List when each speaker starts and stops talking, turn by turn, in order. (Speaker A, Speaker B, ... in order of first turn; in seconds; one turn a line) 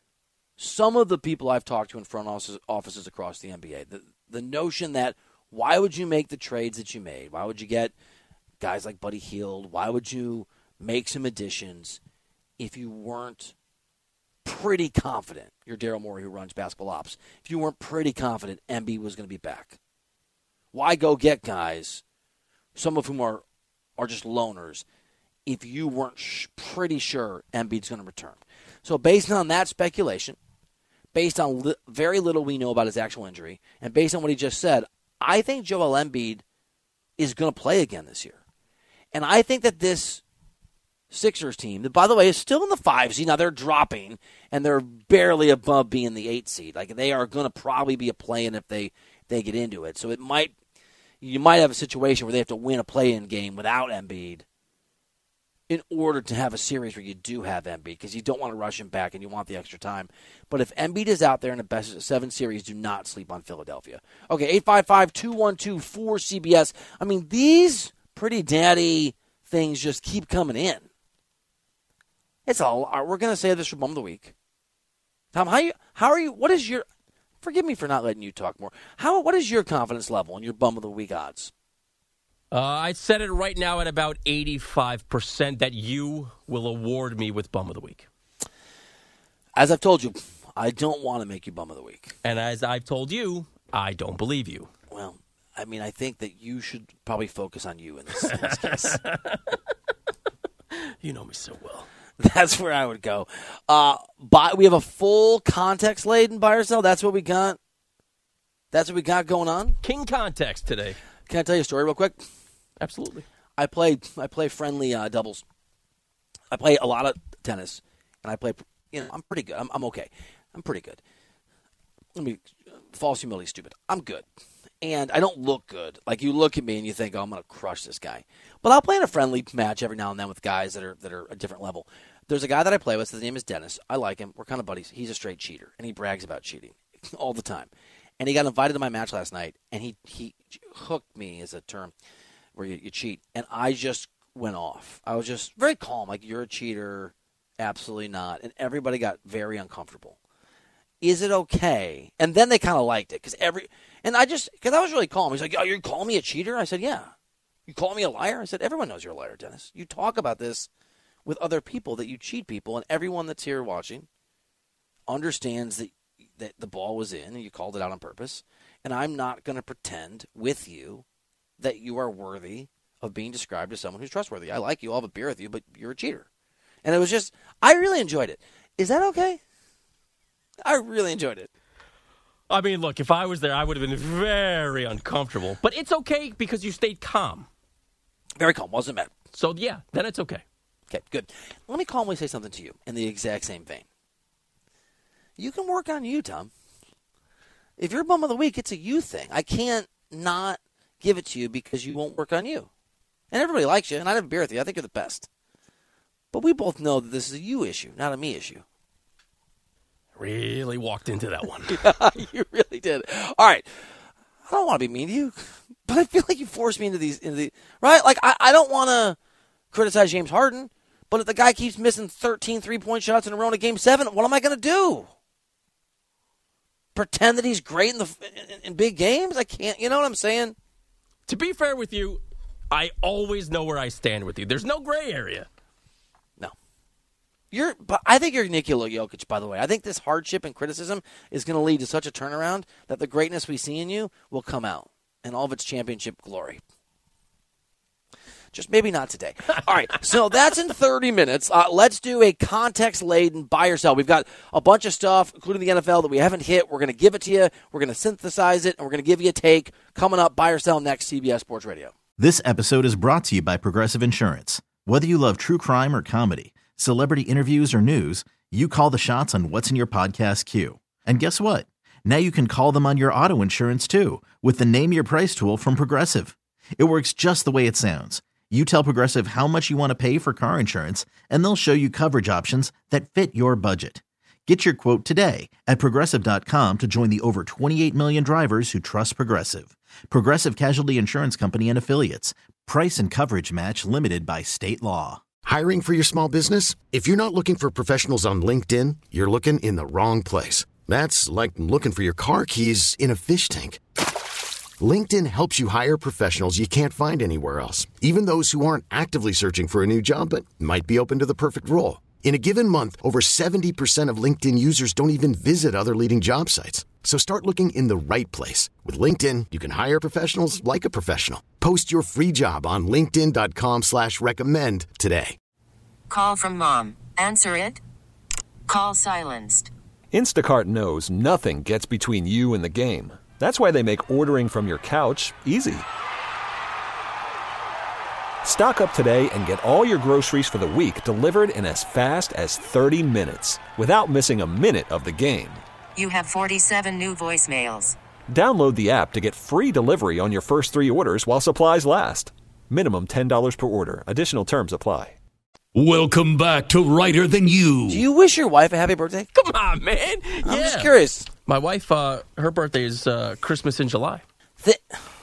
Speaker A: 0.6-7.9
Speaker A: 8.6-12.0
Speaker A: 12.6-13.5
Speaker A: 14.4-19.8
Speaker A: 20.7-22.0
Speaker A: 22.8-23.4
Speaker A: 24.0-24.8
Speaker A: 25.5-30.4
Speaker A: 31.1-36.4
Speaker A: 37.2-38.4
Speaker A: 39.1-40.2
Speaker A: 41.1-50.5
Speaker A: 51.2-54.5
Speaker A: 55.7-70.9
Speaker A: 72.5-74.3
Speaker A: 75.3-76.8
Speaker A: 77.4-81.5
Speaker B: 82.5-88.1
Speaker A: 89.6-92.1
Speaker B: 92.2-94.7
Speaker A: 94.9-99.0
Speaker B: 98.3-99.6
Speaker B: 100.8-101.9
Speaker A: 102.2-107.6
Speaker A: 108.7-109.8
Speaker B: 109.8-111.0
Speaker A: 111.3-112.2
Speaker B: 112.8-113.3
Speaker A: 113.6-115.4
Speaker A: 116.5-121.0
Speaker A: 122.2-124.3
Speaker A: 124.8-137.7
Speaker A: 138.2-141.9
Speaker A: 142.6-150.2
Speaker A: 151.0-157.1
Speaker A: 157.7-160.7
Speaker A: 161.3-164.1
Speaker A: 165.1-171.0
Speaker A: 171.6-176.3
Speaker A: 176.8-179.4
Speaker A: 180.7-181.5
Speaker B: 182.5-187.5
Speaker A: 188.4-189.1
Speaker B: 189.3-190.4
Speaker A: 190.9-193.8
Speaker A: 195.4-196.5
Speaker A: 197.8-202.7
Speaker A: 203.3-205.3
Speaker A: 206.3-208.6
Speaker B: 210.2-211.8
Speaker A: 211.7-213.7
Speaker A: 214.5-219.2
Speaker A: 219.7-225.1
Speaker A: 226.9-230.6
Speaker B: 231.3-235.5
Speaker A: 237.5-246.6
Speaker A: 248.5-261.9
Speaker C: 262.2-295.2
Speaker D: 295.4-303.8
Speaker D: 304.8-325.4
Speaker E: 326.1-327.8
Speaker E: 328.7-329.7
Speaker F: 330.1-335.9
Speaker F: 338.4-345.6
Speaker E: 345.9-348.0
Speaker F: 348.3-355.2
Speaker G: 355.8-358.0
Speaker A: 357.9-359.3
Speaker B: 359.4-360.9
Speaker A: 360.4-361.3
Speaker B: 361.5-364.2